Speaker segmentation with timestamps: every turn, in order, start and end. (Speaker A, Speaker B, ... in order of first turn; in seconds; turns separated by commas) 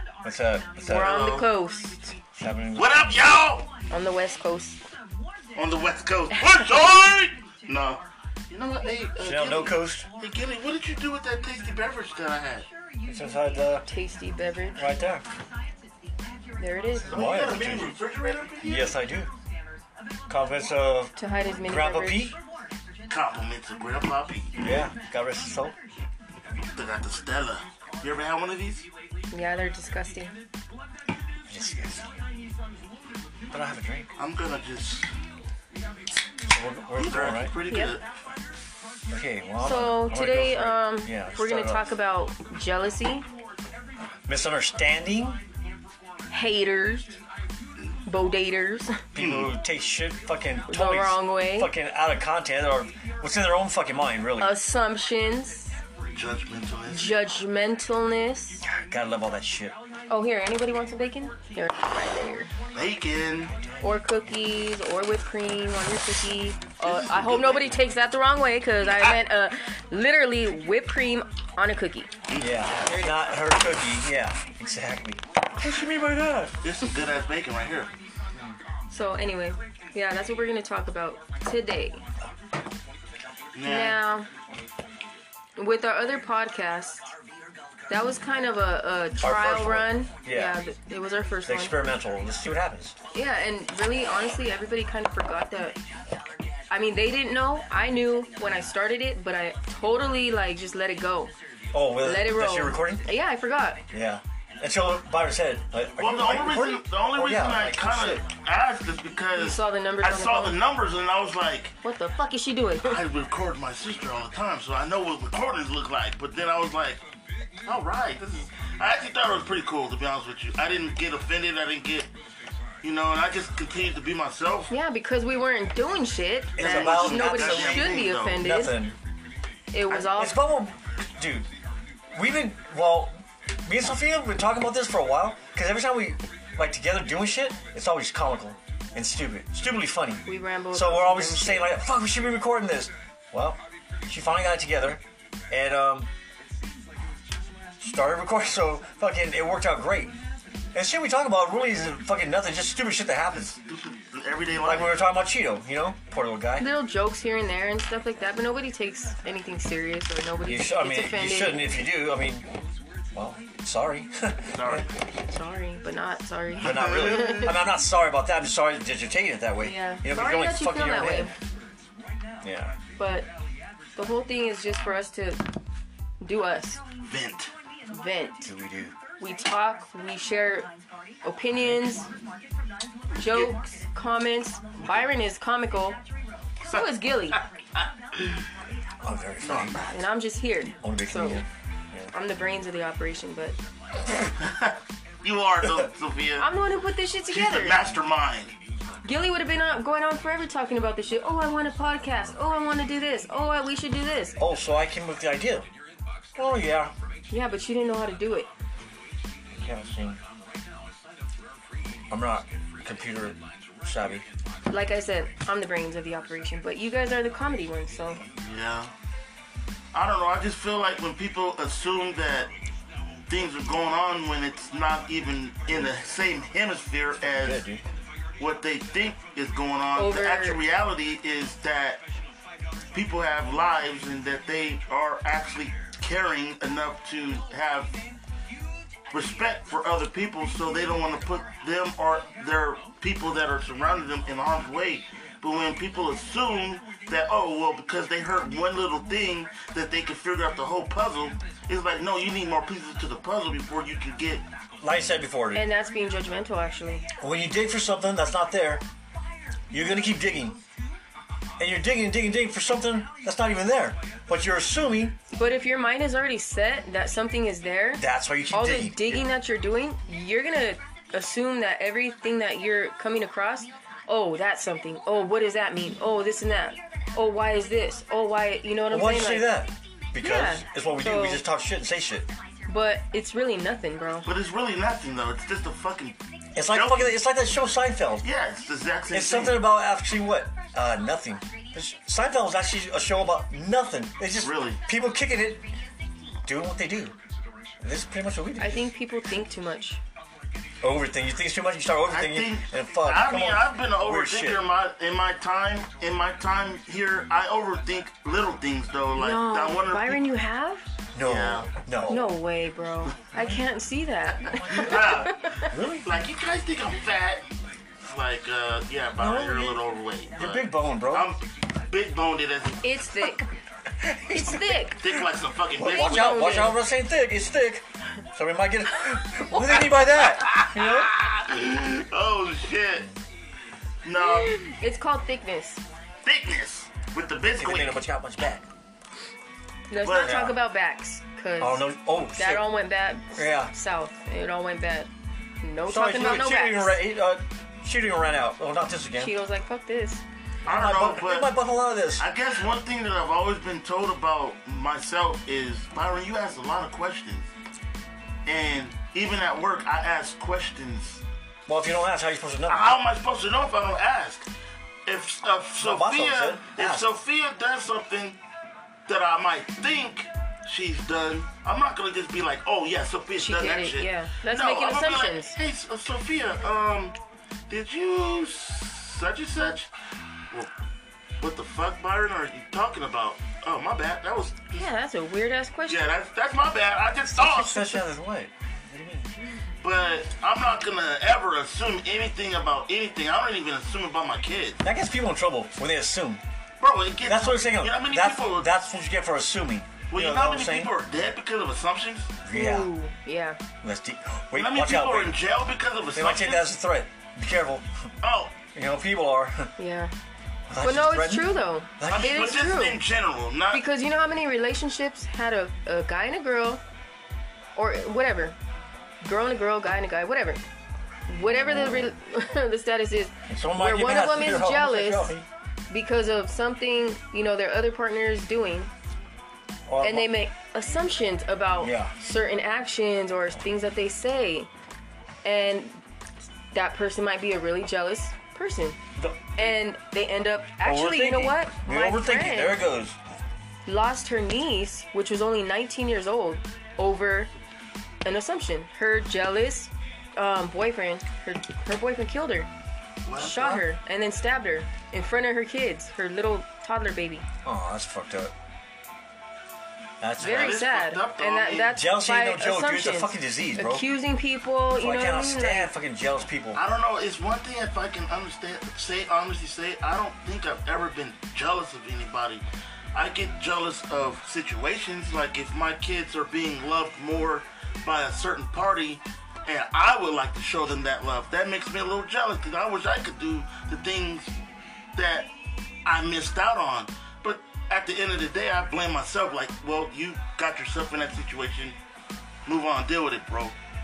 Speaker A: 0.2-1.4, Speaker B: 0.8-2.2, Speaker C: 0.9-1.5, Speaker A: 2.4-3.3, Speaker C: 2.8-3.7, Speaker B: 3.9-4.8, Speaker C: 5.5-12.7, Speaker A: 9.2-10.1, Speaker A: 13.1-13.9, Speaker B: 13.9-14.9, Speaker A: 14.8-15.2, Speaker B: 16.6-17.2, Speaker A: 17.1-18.0, Speaker C: 17.1-18.9, Speaker A: 18.6-19.3, Speaker A: 20.3-22.4, Speaker B: 21.2-22.3, Speaker C: 23.1-24.6, Speaker A: 24.6-25.8, Speaker C: 26.7-28.9, Speaker B: 29.3-30.4, Speaker A: 31.5-32.1, Speaker A: 33.5-34.1, Speaker C: 34.2-35.1, Speaker A: 36.5-37.5, Speaker C: 37.0-38.1, Speaker B: 37.7-38.0, Speaker A: 39.1-41.9, Speaker B: 39.6-43.3, Speaker A: 44.3-45.4, Speaker B: 46.3-47.2, Speaker B: 48.0-49.0, Speaker A: 49.1-54.5, Speaker C: 49.2-49.5, Speaker B: 50.7-51.7, Speaker B: 54.4-55.8, Speaker C: 56.1-57.1, Speaker B: 56.9-58.6, Speaker A: 58.6-59.8, Speaker B: 60.1-62.5, Speaker C: 62.7-63.5, Speaker B: 63.8-72.1, Speaker C: 66.8-67.8, Speaker C: 72.3-73.2, Speaker A: 72.4-76.6, Speaker C: 76.6-77.9, Speaker B: 78.9-82.0, Speaker C: 83.5-84.0, Speaker B: 83.6-84.3, Speaker B: 85.6-87.1, Speaker B: 87.9-91.8, Speaker A: 89.2-90.6, Speaker A: 91.5-93.0, Speaker B: 93.1-95.8, Speaker B: 96.7-101.3, Speaker A: 101.7-103.0, Speaker B: 102.0-103.8, Speaker A: 103.9-108.3, Speaker C: 106.0-111.7, Speaker B: 109.3-110.6, Speaker B: 111.8-113.0, Speaker C: 112.8-117.0, Speaker C: 117.6-122.1, Speaker C: 122.8-124.7, Speaker B: 124.7-128.8, Speaker A: 126.5-129.0, Speaker C: 126.6-128.4, Speaker B: 129.7-130.4, Speaker A: 129.9-131.5, Speaker A: 132.1-146.1, Speaker B: 140.3-141.7, Speaker A: 147.8-150.1, Speaker A: 150.7-153.6, Speaker C: 153.4-155.0, Speaker A: 154.6-156.7, Speaker B: 156.6-161.6, Speaker A: 160.4-162.5, Speaker A: 163.1-164.9, Speaker C: 164.5-165.0, Speaker B: 165.3-167.6, Speaker A: 166.6-171.3, Speaker C: 166.6-167.5, Speaker B: 169.6-171.3, Speaker A: 172.4-172.7, Speaker B: 173.0-173.3, Speaker B: 173.9-175.4, Speaker B: 176.2-176.8, Speaker C: 177.0-177.5, Speaker B: 177.9-178.5, Speaker A: 178.4-179.0, Speaker B: 179.2-180.7, Speaker B: 181.2-182.1, Speaker B: 183.1-186.0, Speaker C: 183.2-183.5, Speaker C: 186.7-188.4, Speaker B: 186.7-187.4, Speaker A: 189.0-190.0, Speaker C: 189.4-189.8, Speaker B: 189.8-191.4, Speaker A: 190.8-192.1, Speaker B: 192.1-193.6, Speaker C: 194.4-196.5, Speaker B: 196.4-197.8, Speaker C: 197.3-198.5, Speaker B: 199.0-204.4, Speaker A: 204.4-205.7, Speaker A: 206.3-206.9, Speaker B: 207.3-208.5, Speaker A: 209.5-210.2, Speaker A: 212.1-214.2, Speaker B: 214.7-218.2, Speaker C: 218.4-218.9, Speaker C: 219.9-222.5, Speaker C: 223.3-227.6, Speaker A: 227.2-227.8, Speaker C: 228.4-232.0, Speaker B: 229.9-230.6, Speaker C: 232.9-237.9, Speaker C: 239.1-254.4, Speaker A: 254.8-255.7, Speaker B: 255.5-257.1, Speaker A: 257.2-258.8, Speaker A: 259.7-260.6, Speaker A: 261.6-265.2, Speaker B: 265.3-279.5, Speaker A: 268.0-269.2, Speaker A: 278.9-282.3, Speaker B: 280.2-281.4, Speaker B: 282.7-284.3, Speaker C: 284.2-286.2, Speaker A: 286.6-288.3, Speaker C: 286.7-287.2, Speaker C: 288.2-289.6, Speaker A: 289.1-295.7, Speaker C: 294.4-294.8, Speaker A: 296.4-297.1, Speaker A: 297.8-298.9, Speaker B: 298.6-300.0, Speaker A: 300.8-304.6, Speaker C: 302.1-310.2, Speaker B: 309.1-310.9, Speaker A: 311.1-312.3, Speaker C: 311.2-311.7, Speaker B: 312.1-315.7, Speaker C: 314.7-317.5, Speaker A: 315.7-316.1, Speaker C: 318.0-323.3, Speaker A: 319.1-319.8, Speaker A: 320.4-321.3, Speaker B: 322.8-323.5, Speaker A: 324.0-324.7, Speaker B: 324.3-325.0, Speaker C: 325.0-326.4, Speaker A: 325.8-331.1, Speaker B: 325.8-326.8, Speaker C: 330.3-333.1, Speaker C: 334.1-334.5, Speaker B: 334.2-335.8, Speaker C: 336.2-338.0, Speaker A: 337.6-338.7, Speaker B: 339.9-345.1, Speaker C: 340.0-340.6, Speaker A: 340.2-340.6, Speaker A: 341.6-342.7, Speaker A: 343.4-343.7, Speaker B: 345.6-347.0, Speaker A: 345.9-349.4, Speaker B: 349.2-350.2, Speaker C: 350.6-351.5, Speaker A: 350.6-352.3, Speaker C: 352.2-357.5, Speaker C: 358.5-361.2, Speaker A: 361.7-362.9, Speaker C: 362.7-364.5, Speaker C: 365.1-368.4, Speaker A: 365.8-367.1, Speaker C: 369.1-377.1, Speaker B: 373.4-375.6, Speaker C: 377.7-379.9, Speaker C: 381.4-384.9, Speaker B: 384.8-386.1, Speaker C: 385.9-388.0, Speaker A: 387.3-389.3, Speaker C: 389.8-394.8, Speaker A: 394.8-396.4, Speaker C: 396.8-398.7, Speaker A: 397.2-400.9, Speaker C: 400.1-402.3, Speaker A: 402.4-402.9, Speaker B: 402.5-403.6, Speaker A: 403.8-405.4, Speaker C: 404.6-406.6, Speaker A: 406.1-408.1, Speaker C: 408.2-408.6, Speaker A: 408.7-409.7, Speaker B: 409.8-410.1, Speaker A: 410.7-412.5, Speaker B: 410.8-413.0, Speaker C: 412.1-413.8, Speaker B: 413.7-416.8, Speaker B: 417.8-418.6, Speaker B: 419.2-420.6, Speaker B: 421.3-425.3, Speaker A: 421.5-422.1, Speaker A: 423.5-425.5, Speaker B: 425.9-428.9, Speaker A: 429.9-430.3, Speaker B: 430.0-434.7, Speaker A: 431.8-432.1, Speaker B: 435.4-436.0, Speaker B: 436.7-439.0, Speaker A: 439.2-439.7, Speaker B: 439.6-442.8, Speaker A: 440.8-443.2, Speaker B: 443.9-447.5, Speaker B: 448.2-452.7, Speaker C: 453.2-453.9, Speaker B: 453.4-457.4, Speaker A: 457.6-458.5, Speaker A: 460.2-460.8, Speaker B: 460.4-465.9, Speaker C: 460.4-462.0, Speaker A: 461.9-464.1, Speaker A: 464.9-466.8, Speaker C: 466.8-484.5, Speaker C: 485.2-485.5, Speaker C: 486.1-492.0, Speaker C: 492.7-493.8